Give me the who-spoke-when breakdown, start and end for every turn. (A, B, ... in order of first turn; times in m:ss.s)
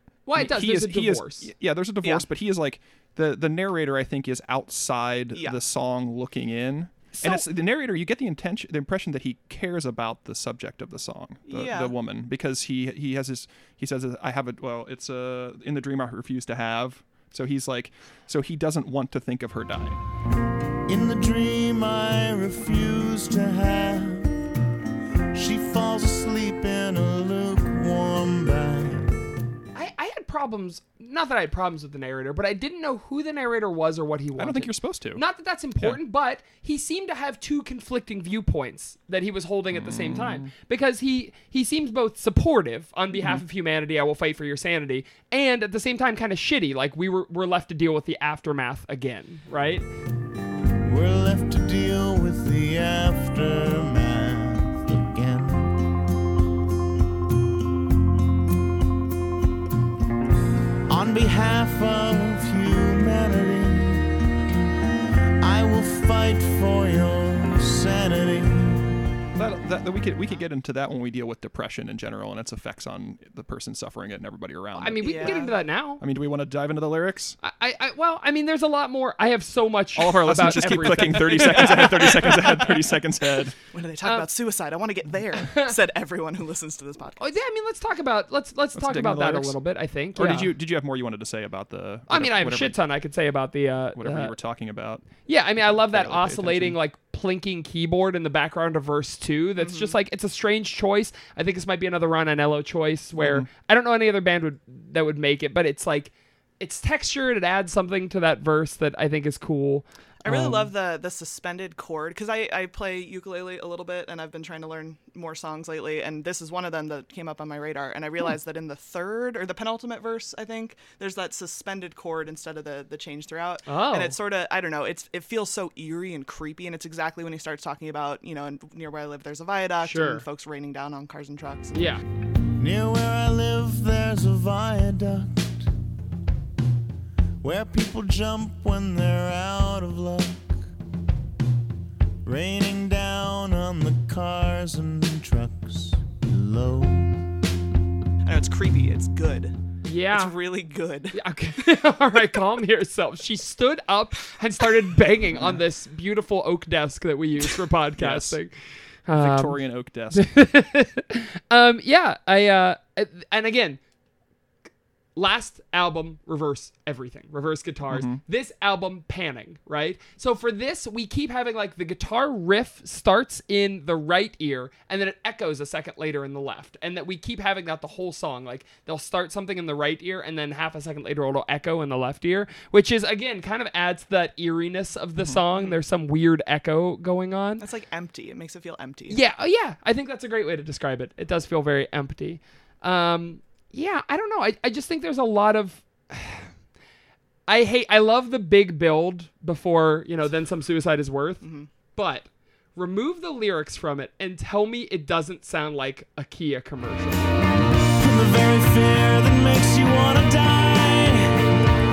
0:00.3-0:01.5 A
0:00.3-0:20.0 B
0:11.5-0:11.9 C
0:20.9-0:24.4 D
0:25.3-0:29.2 D
0:29.7-0:49.8 A
0:34.4-0:35.2 B
0:39.7-0:40.5 B
0:50.8-0:55.8 D
1:00.9-1:04.2 D
1:05.4-1:09.0 D
1:09.4-1:15.4 B
1:14.8-1:16.0 A
1:15.0-1:15.6 C
1:16.0-1:17.4 B
1:17.4-1:22.7 A
1:20.0-1:23.6 B
1:20.7-1:22.7 C
1:23.7-1:27.4 C
1:24.0-1:24.3 A
1:25.4-1:25.8 A
1:27.2-1:30.5 A
1:28.8-1:29.6 B
1:30.1-1:32.8 B
1:32.1-1:34.3 A
1:34.0-1:36.8 B
1:35.2-1:49.9 A
1:39.6-1:39.9 C
1:43.2-1:43.5 B
1:50.2-2:11.9 C
1:50.3-1:50.7 B
2:03.7-2:04.1 A
2:09.8-2:10.2 A
2:11.7-2:12.0 A
2:12.6-2:15.7 D
2:17.4-2:20.6 D
2:22.2-2:27.3 D
2:28.2-2:29.5 C
2:29.8-2:30.4 A
2:30.1-2:31.2 C
2:31.1-2:38.6 A
2:38.0-2:38.4 B
2:39.1-2:39.6 A
2:39.2-2:40.3 B
2:40.1-2:43.8 A
2:45.2-3:07.6 A
2:47.9-2:48.2 B
3:05.5-3:05.8 C
3:07.6-3:09.2 C
3:09.1-3:16.5 A
3:17.5-3:21.4 A
3:21.4-3:21.7 C
3:21.9-3:27.4 A
3:28.0-3:31.5 D